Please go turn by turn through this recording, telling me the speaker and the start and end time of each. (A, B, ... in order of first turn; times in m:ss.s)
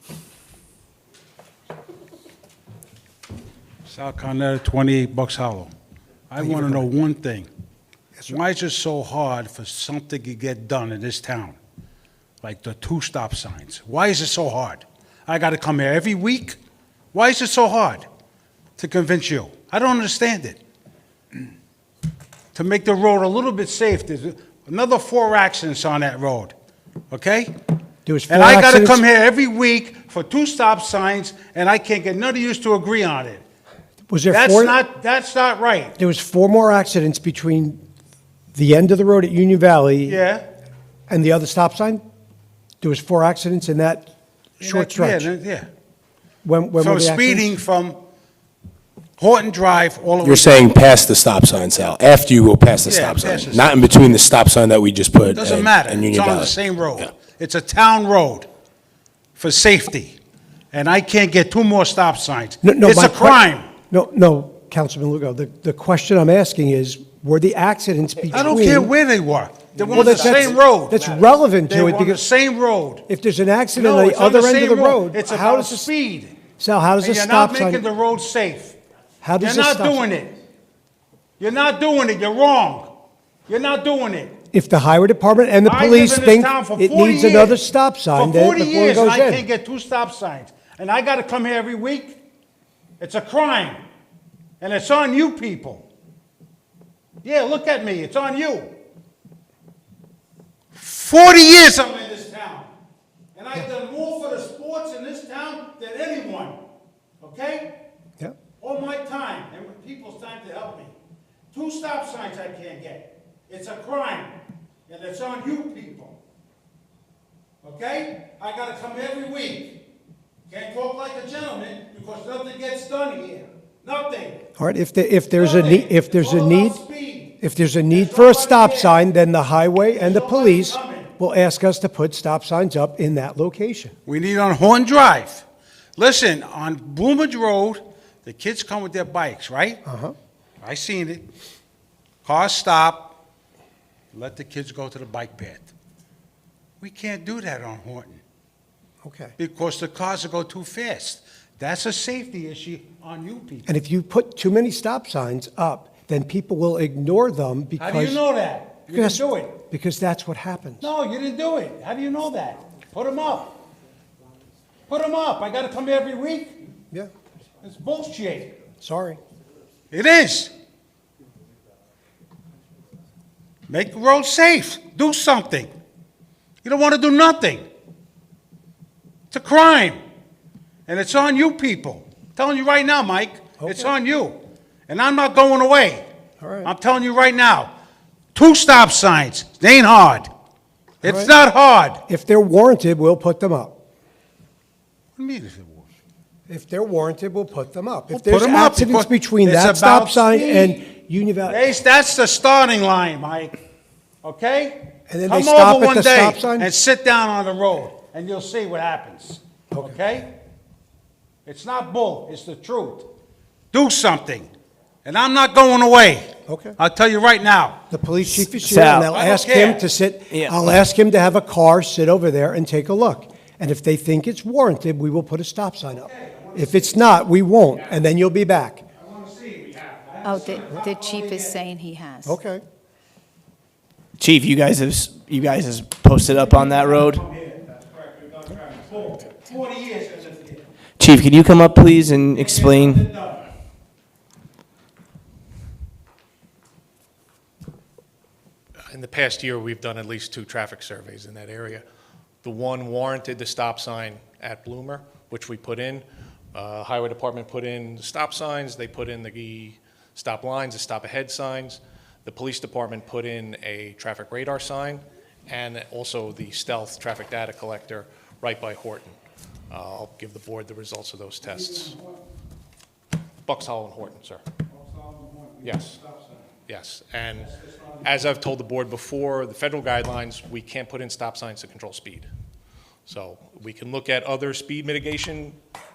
0:03.9-0:05.7 A
0:06.3-0:07.5 A
0:06.4-0:06.8 B
0:08.2-0:11.6 A
0:12.4-0:16.6 A
0:17.1-0:18.0 A
0:18.8-0:20.6 A
0:22.5-0:26.5 A
0:27.1-0:27.5 A
0:28.0-0:29.0 B
0:28.3-0:33.4 A
0:34.1-0:34.8 B
0:34.3-0:35.9 A
0:36.0-0:37.8 B
0:38.5-0:40.2 B
0:40.0-0:40.4 A
0:41.1-0:42.0 B
0:42.8-0:45.3 B
0:44.6-0:45.7 A
0:46.4-0:47.5 B
0:46.8-0:48.0 A
0:49.2-0:50.8 A
0:50.2-0:57.1 C
0:52.8-0:53.8 A
0:55.3-0:58.5 A
0:59.4-1:00.2 A
1:00.7-1:03.7 A
1:02.6-1:08.9 B
1:08.3-1:13.0 A
1:09.8-1:12.3 B
1:13.1-1:15.9 B
1:13.7-1:16.4 A
1:16.6-1:17.8 B
1:17.0-1:18.8 A
1:19.2-1:20.1 B
1:19.4-1:20.3 A
1:21.4-1:22.9 A
1:23.5-1:24.3 A
1:24.5-1:29.4 B
1:25.6-1:27.6 A
1:28.1-1:32.2 A
1:33.0-1:33.8 A
1:34.6-1:35.8 A
1:37.2-1:38.7 A
1:40.7-1:42.7 A
1:43.3-1:46.6 A
1:47.2-1:47.7 A
1:48.6-1:50.9 A
1:51.5-1:54.3 A
1:54.9-1:56.2 A
1:57.6-1:59.7 A
2:00.5-2:04.4 A
2:04.6-2:06.8 B
2:05.3-2:07.3 A
2:07.4-2:13.9 B
2:07.9-2:09.0 A
2:09.9-2:11.1 A
2:14.0-2:15.4 A
2:16.0-2:19.8 A
2:19.8-2:20.1 B
2:20.6-2:21.2 A
2:22.2-2:23.1 A
2:24.1-2:25.7 A
2:26.8-2:28.2 A
2:29.0-2:29.3 B
2:29.4-2:33.7 A
2:33.6-2:38.2 B
2:37.8-2:39.5 A
2:38.9-2:40.9 B
2:40.8-2:43.5 A
2:44.9-2:46.6 A
2:47.6-2:48.5 A
2:48.8-2:49.2 B
2:49.9-2:50.5 A
2:53.7-2:55.7 A
2:56.6-2:57.6 A
2:59.3-3:00.0 A
3:00.9-3:06.0 A
3:03.6-3:03.9 B
3:06.4-3:06.7 B
3:06.6-3:07.7 A
3:08.3-3:10.3 A
3:11.0-3:12.0 A
3:11.0-3:11.3 B
3:12.1-3:13.8 B
3:15.2-3:15.9 A
3:16.5-3:21.6 B
3:18.1-3:20.8 A
3:21.4-3:23.6 A
3:24.2-3:30.3 A
3:25.1-3:26.7 B
3:31.4-3:33.1 A
3:33.7-3:34.5 A
3:35.0-3:37.8 A
3:36.5-3:36.8 B
3:37.9-3:48.8 B
3:38.4-3:39.1 D
3:39.1-3:39.8 A
3:40.3-3:40.6 D
3:46.0-3:47.1 A
3:49.0-3:51.6 A
3:50.2-3:52.4 E
3:52.2-3:52.6 B
3:54.2-3:57.2 D
3:56.4-4:00.6 A
4:01.0-4:03.0 D
4:02.4-4:03.5 A
4:08.9-4:11.8 F
4:12.4-4:29.2 F
4:29.7-4:31.9 F
4:31.4-4:32.2 A
4:33.4-4:34.4 F
4:34.7-4:36.5 A
4:35.6-4:36.0 F
4:36.7-4:37.5 F
4:37.4-4:38.0 A
4:38.0-4:42.2 F
4:43.1-4:45.6 F